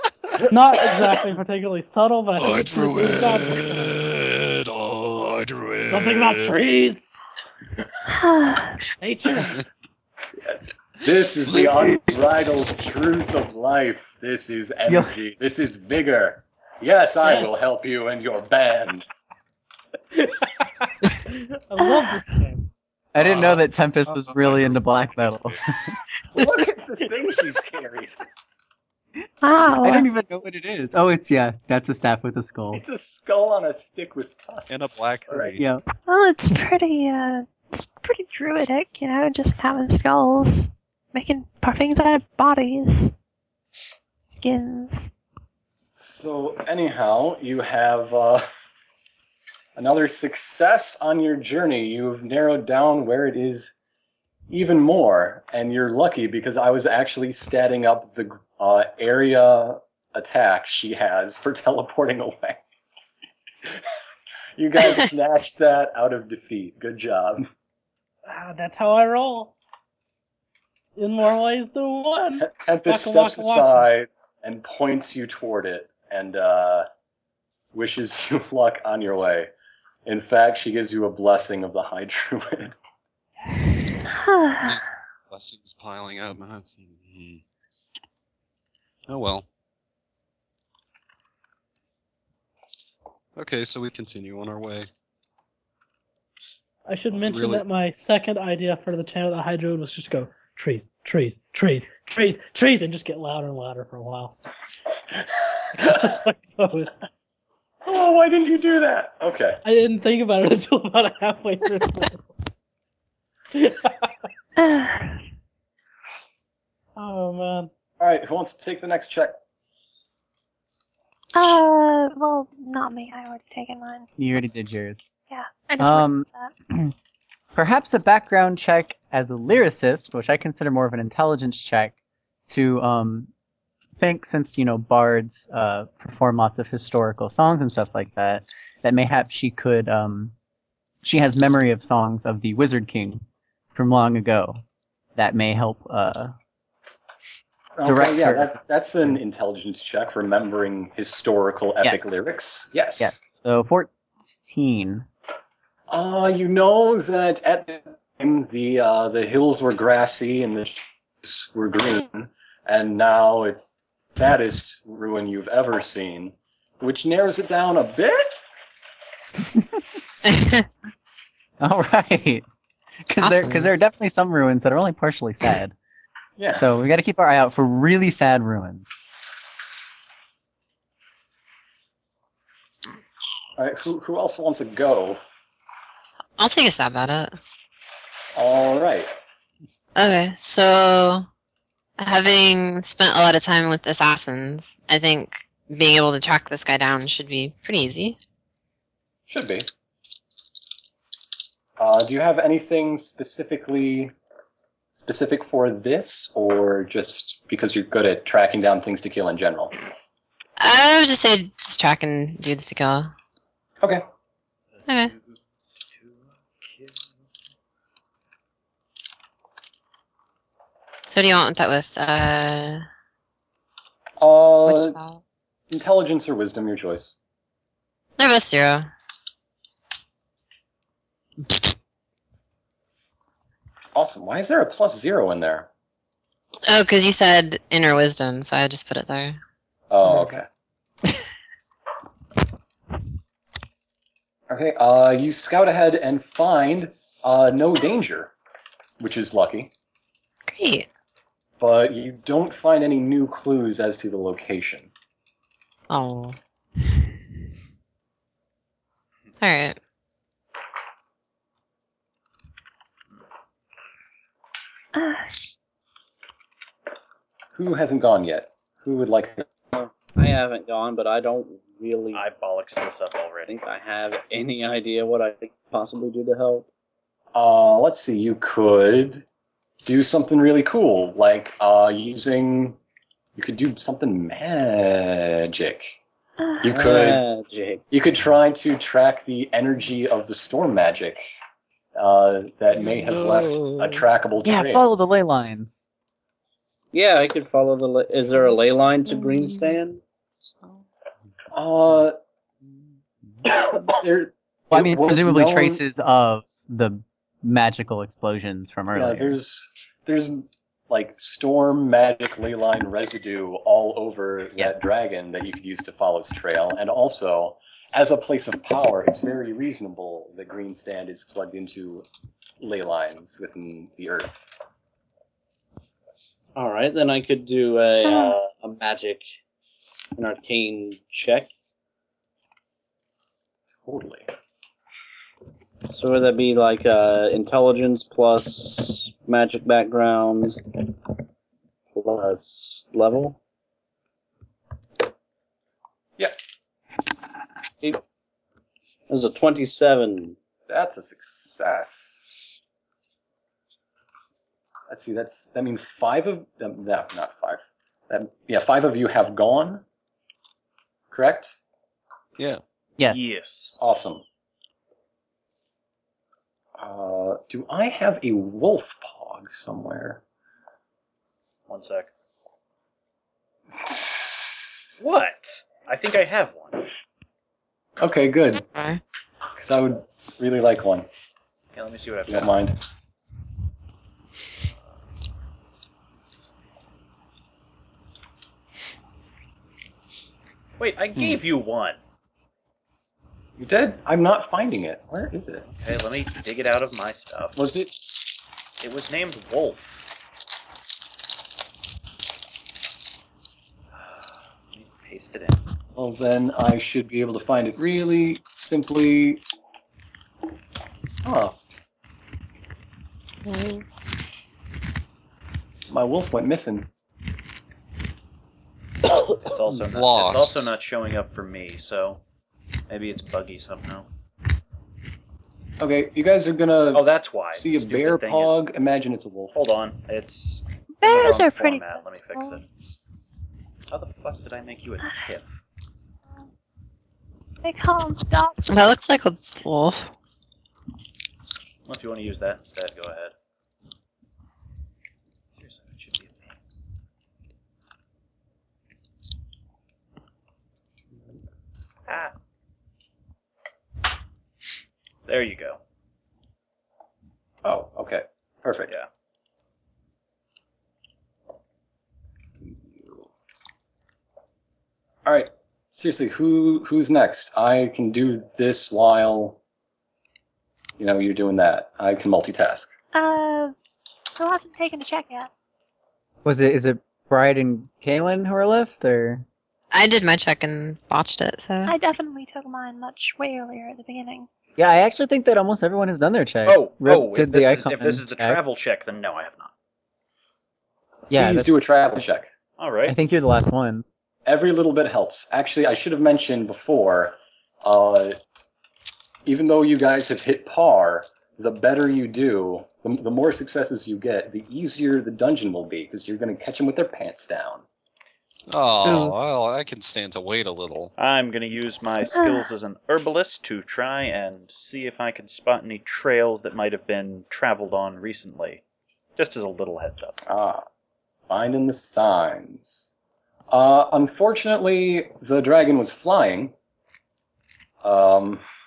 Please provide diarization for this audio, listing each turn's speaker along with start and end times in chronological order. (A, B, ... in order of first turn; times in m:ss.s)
0:00.4-0:04.0 A
0:02.4-0:06.6 B
0:05.8-0:07.2 A
0:08.1-0:08.8 C
0:09.0-0:09.6 A
0:10.4-0:19.1 D
0:17.2-0:17.7 A
0:20.2-0:20.9 A
0:21.5-0:22.7 A
0:23.1-0:25.9 E
0:23.2-0:24.7 B
0:26.3-0:28.2 D
0:29.4-0:30.1 C
0:29.8-0:32.8 E
0:32.7-0:35.6 D
0:34.7-0:35.7 B
0:35.6-0:35.8 E
0:36.0-0:43.1 C
0:44.3-0:45.1 C
0:46.0-0:48.5 D
0:49.7-0:53.7 D
0:54.5-1:02.6 D
1:04.6-1:07.5 D
1:08.2-1:09.5 A
1:11.0-1:13.8 A
1:12.4-1:16.9 D
1:17.7-1:19.5 D
1:20.0-1:22.8 D
1:24.1-1:24.8 C
1:24.6-1:27.4 B
1:29.1-1:29.5 B
1:33.4-1:34.9 B
1:36.9-1:44.4 A
1:37.1-1:37.6 B
1:45.7-1:47.0 A
1:47.8-1:49.6 D
1:49.6-1:52.2 A
1:53.5-1:54.1 A
1:54.6-1:55.2 C
1:57.0-1:57.7 A
1:58.0-1:59.4 D
2:01.3-2:04.1 C
2:04.2-2:05.1 E
2:05.3-2:06.5 C
2:05.8-2:06.9 E
2:07.5-2:11.9 E
2:12.5-2:13.3 E
2:14.0-2:20.3 E
2:21.0-2:24.6 E
2:25.2-2:26.3 E
2:27.8-2:33.2 D
2:27.8-2:28.6 E
2:31.8-2:32.2 E
2:33.0-2:35.0 E
2:35.9-2:48.4 D
2:50.2-2:50.6 F
2:51.6-2:52.4 E
2:53.0-2:55.7 E
2:53.2-2:53.6 F
2:56.4-2:56.6 D
2:56.5-2:59.1 E
3:03.6-3:05.2 D
3:06.4-3:07.4 F
3:08.3-3:09.1 D
3:09.9-3:11.3 F
3:12.0-3:18.2 F
3:19.3-3:19.7 D
3:21.8-3:24.1 D
3:24.9-3:29.7 D
3:30.6-3:33.1 F
3:34.8-3:35.1 F
3:41.1-3:42.9 F
3:44.2-3:45.0 D
3:44.6-3:45.2 F
3:45.7-3:47.1 D
3:48.2-3:48.9 F
3:53.9-3:55.7 D
3:56.6-3:59.4 F
3:59.9-4:00.5 D
4:04.5-4:08.3 D
4:09.0-4:09.7 D
4:10.5-4:10.9 F
4:11.6-4:14.9 D
4:15.9-4:16.4 F
4:19.4-4:19.8 F
4:24.9-4:25.4 C
4:27.5-4:29.5 D
4:30.1-4:32.2 G
4:32.1-4:33.6 H
4:33.5-4:36.7 G
4:37.3-4:39.2 D
4:39.8-4:42.8 D
4:43.4-4:46.0 D
4:46.6-4:47.2 D
4:46.6-4:47.8 G
4:47.9-4:51.3 D
4:51.9-4:54.8 D
4:54.4-4:55.9 E
4:56.9-5:00.0 G
5:00.4-5:00.8 B
5:01.5-5:02.2 D
5:03.8-5:05.8 D
5:04.7-5:09.4 E
5:08.9-5:22.0 D
5:14.6-5:15.0 E
5:22.6-5:24.4 D
5:26.6-5:29.2 G
5:28.0-5:28.4 C
5:30.2-5:31.5 G
5:33.8-5:34.3 D
5:35.9-5:40.6 G
5:41.9-5:43.4 G
5:49.1-5:50.4 G
5:50.7-5:52.3 D
5:54.9-5:59.8 D
6:01.1-6:01.6 D
6:03.0-6:03.4 E
6:03.1-6:03.8 H
6:03.8-6:04.2 D
6:06.8-6:10.2 D
6:11.7-6:12.1 H
6:13.8-6:14.6 D
6:15.0-6:16.9 H
6:18.0-6:18.6 D
6:18.7-6:19.0 F
6:19.6-6:21.1 D
6:21.7-6:22.5 H
6:22.3-6:22.8 D
6:30.8-6:32.0 H
6:33.6-6:35.7 D
6:35.7-6:37.6 H
6:37.6-6:37.9 D
6:38.8-6:40.0 H
6:44.7-6:45.6 H
6:45.9-6:49.4 D
6:51.2-6:51.6 D
6:55.9-6:56.9 D
6:59.4-7:02.2 H
6:59.9-7:00.7 B
7:02.9-7:04.1 H
7:05.8-7:09.5 D
7:06.9-7:08.6 H
7:09.5-7:13.0 H
7:11.0-7:12.6 C
7:13.9-7:15.6 H
7:17.6-7:18.9 C
7:18.7-7:20.1 F
7:21.8-7:23.3 H
7:25.5-7:26.5 H
7:32.1-7:32.3 H
7:35.2-7:35.8 H
7:37.6-7:38.9 D
7:42.6-7:43.3 D
7:45.2-7:49.6 D
7:51.0-7:52.9 D
7:53.1-7:53.7 C
7:54.4-7:55.5 C
7:56.4-7:59.4 E
7:59.9-8:01.9 F
8:01.8-8:04.5 C
8:04.8-8:08.6 E
8:06.6-8:09.7 H
8:11.3-8:11.9 E
8:11.3-8:12.5 D
8:12.8-8:13.2 H
8:13.0-8:14.0 E
8:14.4-8:18.4 D
8:19.4-8:27.8 D
8:28.7-8:31.1 B
8:29.0-8:29.3 F
8:31.2-8:38.8 H
8:32.3-8:32.7 C
8:39.4-8:40.4 H
8:40.4-8:40.8 D
8:41.5-8:43.1 D
8:43.7-8:46.7 D
8:48.0-8:48.6 D